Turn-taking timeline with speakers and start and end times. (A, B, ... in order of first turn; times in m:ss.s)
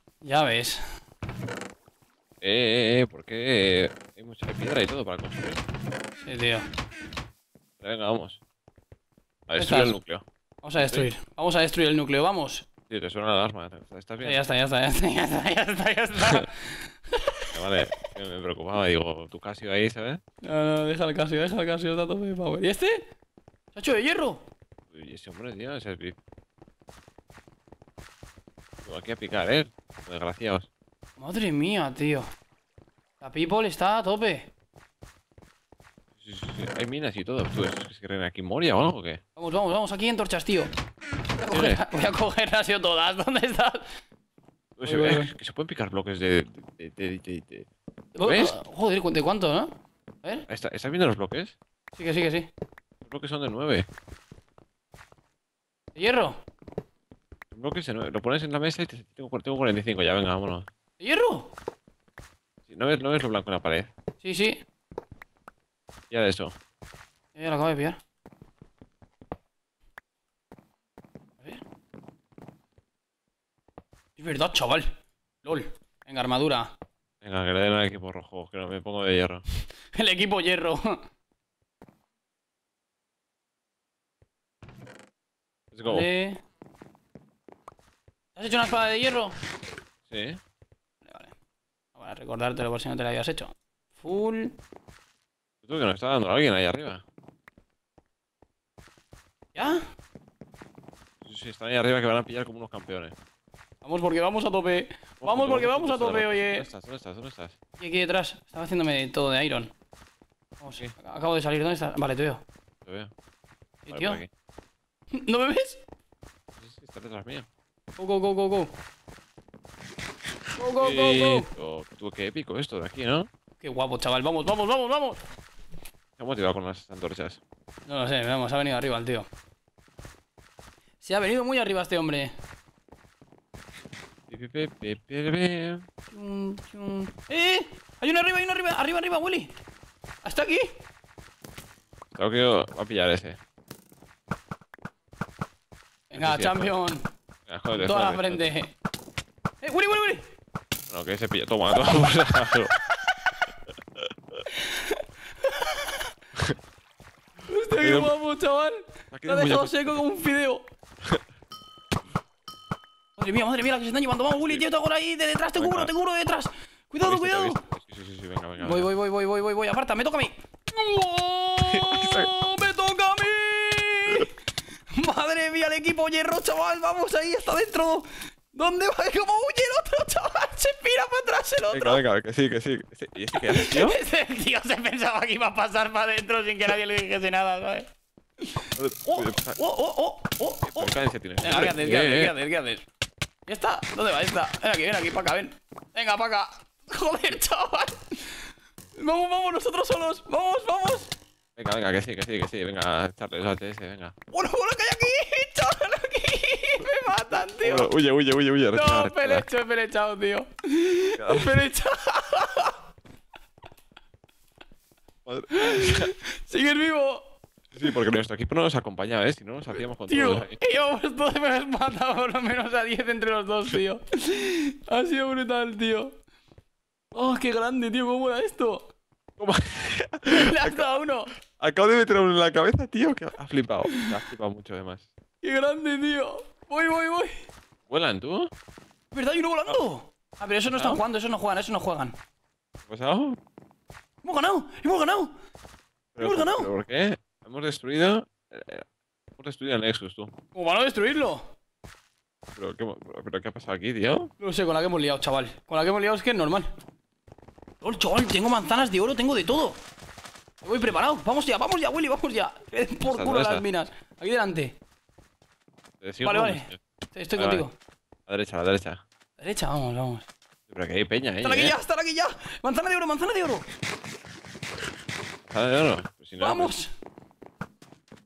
0:00.2-0:00.8 A
0:02.4-0:05.6 B
0:06.2-0:06.7 A
0:07.8-0:08.4 B
0:09.5-0:10.2 B
0:09.6-0:10.0 A
0:10.6-0:12.7 A
0:10.8-0:11.1 B
0:12.9-0:14.4 B
0:14.2-0:17.5 A
0:17.5-0:20.2 B
0:20.4-0:23.0 A
0:23.7-0:24.4 A
0:24.9-0:26.2 B
0:28.8-0:30.7 B
0:31.2-0:32.3 A
0:33.2-0:34.5 A
0:36.2-0:39.2 B
0:39.4-0:40.7 A
0:41.4-0:43.9 A
0:41.5-0:41.8 B
0:44.8-0:47.7 B
0:44.8-0:45.3 A
0:48.1-0:50.5 A
0:48.2-0:48.6 B
0:50.5-0:51.6 B
0:51.9-0:52.5 A
0:53.0-0:53.9 B
0:55.9-0:56.4 A
0:57.5-1:00.7 B
1:01.0-1:01.5 A
1:02.7-1:03.9 B
1:04.2-1:04.6 A
1:06.1-1:06.6 B
1:07.3-1:08.0 A
1:14.2-1:14.9 A
1:15.4-1:16.7 A
1:17.2-1:19.4 B
1:19.9-1:21.0 A
1:25.7-1:26.1 B
1:25.8-1:26.4 A
1:28.4-1:29.4 A
1:30.1-1:30.4 B
1:31.0-1:31.3 A
1:31.9-1:34.6 A
1:35.6-1:37.0 B
1:39.5-1:39.8 A
1:41.2-1:43.1 B
1:43.8-1:46.7 A
1:45.2-1:47.5 B
1:47.8-1:49.7 A
1:50.6-1:52.4 A
1:52.8-1:53.1 B
1:53.8-1:54.2 A
1:53.9-1:54.3 B
1:55.1-1:55.8 A
1:56.6-1:57.5 B
1:58.0-1:58.7 A
2:00.6-2:01.5 A
2:00.8-2:03.3 B
2:03.6-2:05.2 A
2:06.2-2:07.4 B
2:07.9-2:09.3 A
2:11.0-2:12.3 A
2:14.3-2:15.8 B
2:16.1-2:19.6 A
2:20.2-2:20.8 A
2:22.1-2:23.4 B
2:26.1-2:27.1 A
2:26.2-2:26.7 B
2:27.5-2:28.5 B
2:27.7-2:28.7 A
2:29.6-2:30.3 A
2:30.9-2:32.7 B
2:34.5-2:36.1 A
2:37.4-2:40.6 A
2:37.8-2:38.1 B
2:39.1-2:40.0 B
2:43.2-2:47.6 A
2:45.5-2:45.9 B
2:47.0-2:48.9 B
2:48.6-2:54.3 A
2:51.6-2:52.3 B
2:54.9-3:02.0 A
3:01.7-3:04.0 B
3:03.3-3:07.9 A
3:08.5-3:12.8 A
3:08.8-3:09.6 B
3:10.6-3:12.3 B
3:13.5-3:21.1 A
3:21.6-3:24.1 B
3:24.3-3:27.9 A
3:27.6-3:29.4 B
3:28.7-3:32.8 A
3:31.2-3:31.6 B
3:35.2-3:36.1 B
3:35.5-3:37.3 A
3:37.7-3:40.6 B
3:40.1-3:46.2 A
3:47.1-3:48.9 A
3:49.4-3:50.9 B
3:50.3-3:51.3 A
3:51.5-3:55.1 B
3:55.4-3:57.4 A
3:57.9-3:58.5 B
3:59.1-4:02.2 A
4:00.7-4:01.0 B
4:02.8-4:03.4 B
4:04.2-4:05.3 A
4:06.1-4:10.3 B
4:06.2-4:06.7 A
4:10.5-4:11.5 A
4:12.5-4:14.3 B
4:14.4-4:16.7 A
4:17.8-4:19.8 A
4:20.6-4:24.7 A
4:23.0-4:23.6 B
4:26.0-4:26.8 B
4:26.2-4:27.7 A
4:27.4-4:27.6 B
4:28.3-4:29.0 B
4:29.4-4:30.3 A
4:30.7-4:31.7 B
4:31.4-4:33.7 A
4:35.5-4:36.7 B
4:36.4-4:36.9 A